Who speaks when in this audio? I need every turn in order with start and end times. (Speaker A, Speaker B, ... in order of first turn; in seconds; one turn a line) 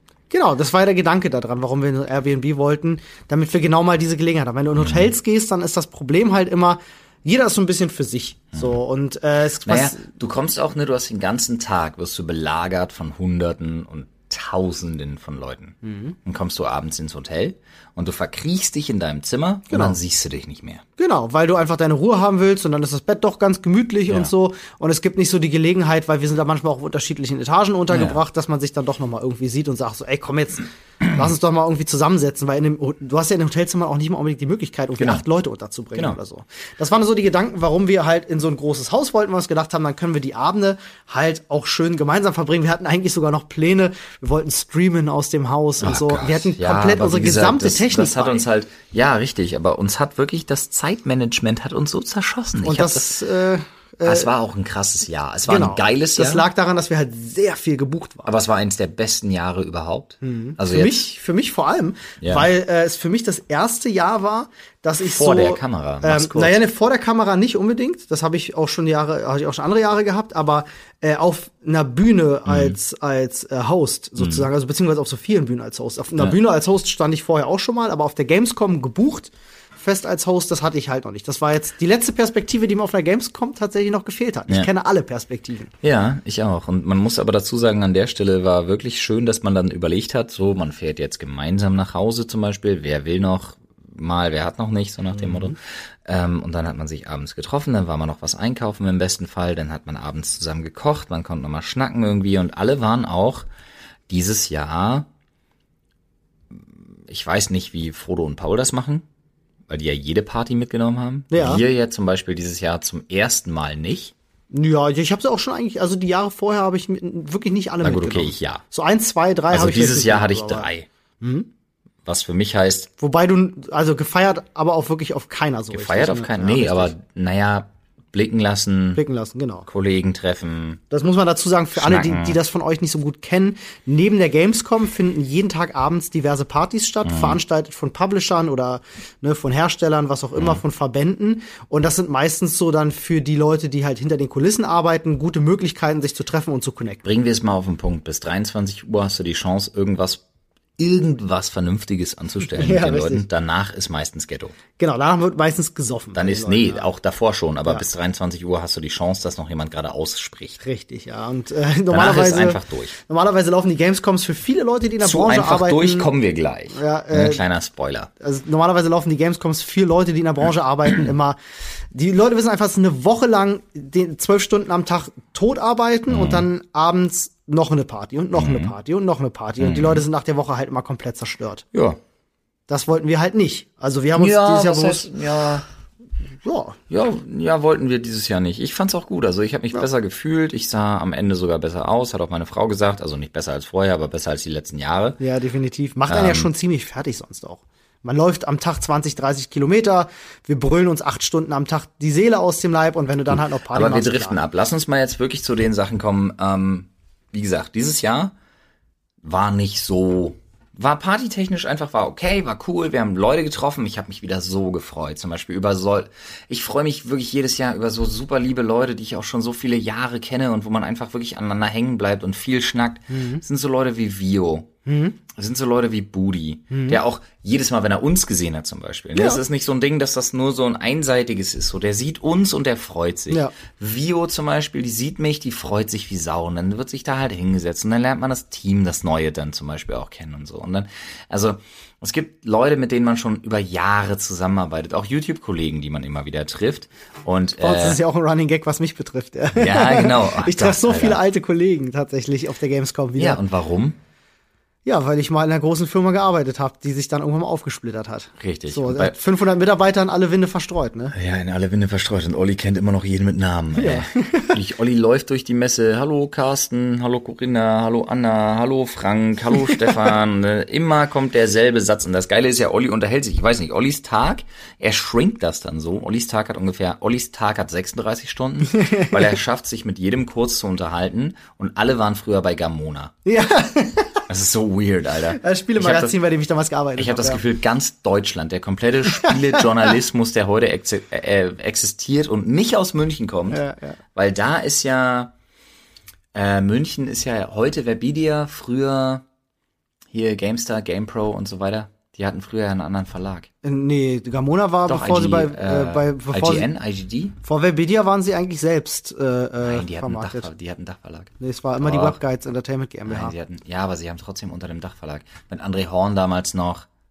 Speaker A: 0.3-10.0
Speaker B: 4.8-5.1
Speaker B: 9.6-20.8
Speaker A: 15.8-16.1
Speaker A: 19.7-20.0
Speaker A: 21.0-48.4
Speaker B: 27.9-28.2
Speaker B: 35.0-35.2
Speaker B: 45.8-53.2
Speaker A: 52.6-54.3
Speaker B: 54.0-56.5
Speaker A: 55.5-58.3
Speaker B: 58.2-61.1
Speaker A: 60.2-85.7
Speaker B: 62.2-62.5
Speaker B: 65.0-66.6
Speaker B: 72.5-72.8
Speaker B: 74.2-74.5
Speaker B: 85.8-103.5
Speaker A: 95.2-95.5
Speaker B: 104.1-105.1
Speaker B: 106.5-109.0
Speaker B: 109.7-114.1
Speaker A: 111.3-111.6
Speaker A: 114.5-120.7
Speaker B: 117.8-118.6
Speaker B: 119.5-120.9
Speaker A: 121.2-121.5
Speaker B: 122.0-122.9
Speaker A: 123.0-126.9
Speaker B: 125.7-129.0
Speaker A: 128.9-129.7
Speaker B: 129.7-130.8
Speaker A: 130.9-147.0
Speaker B: 131.8-132.4
Speaker B: 137.0-137.4
Speaker B: 147.0-150.2
Speaker B: 150.8-154.6
Speaker A: 152.5-153.2
Speaker A: 154.8-156.9
Speaker B: 156.1-160.6
Speaker A: 160.6-166.1
Speaker B: 161.9-162.9
Speaker B: 165.0-168.1
Speaker A: 166.7-167.4
Speaker A: 168.2-171.4
Speaker A: 171.9-181.7
Speaker B: 176.1-176.4
Speaker B: 178.3-178.7
Speaker B: 179.6-180.0
Speaker B: 181.7-182.0
Speaker A: 182.7-185.1
Speaker B: 184.2-185.6
Speaker A: 186.4-186.8
Speaker B: 186.9-195.2
Speaker A: 195.2-204.4
Speaker B: 196.1-196.5
Speaker B: 203.3-208.3
Speaker B: 209.2-224.7
Speaker A: 223.1-223.4
Speaker A: 224.8-225.2
Speaker B: 225.3-248.0
Speaker A: 226.7-227.0
Speaker A: 229.1-229.4
Speaker A: 247.6-253.4
Speaker B: 249.5-251.2
Speaker B: 253.2-254.0
Speaker A: 254.8-261.1
Speaker B: 258.4-259.1
Speaker B: 261.1-283.1
Speaker A: 263.7-264.6
Speaker A: 278.7-279.3
Speaker A: 283.2-284.2
Speaker B: 284.3-286.2
Speaker A: 285.3-287.4
Speaker B: 287.0-293.6
Speaker A: 289.1-289.9
Speaker A: 293.5-294.0
Speaker B: 294.1-295.3
Speaker B: 296.3-299.2
Speaker B: 300.1-303.5
Speaker A: 303.6-306.7
Speaker B: 304.9-307.4
Speaker A: 307.4-310.5
Speaker B: 309.6-312.2
Speaker A: 311.4-313.3
Speaker B: 313.1-316.9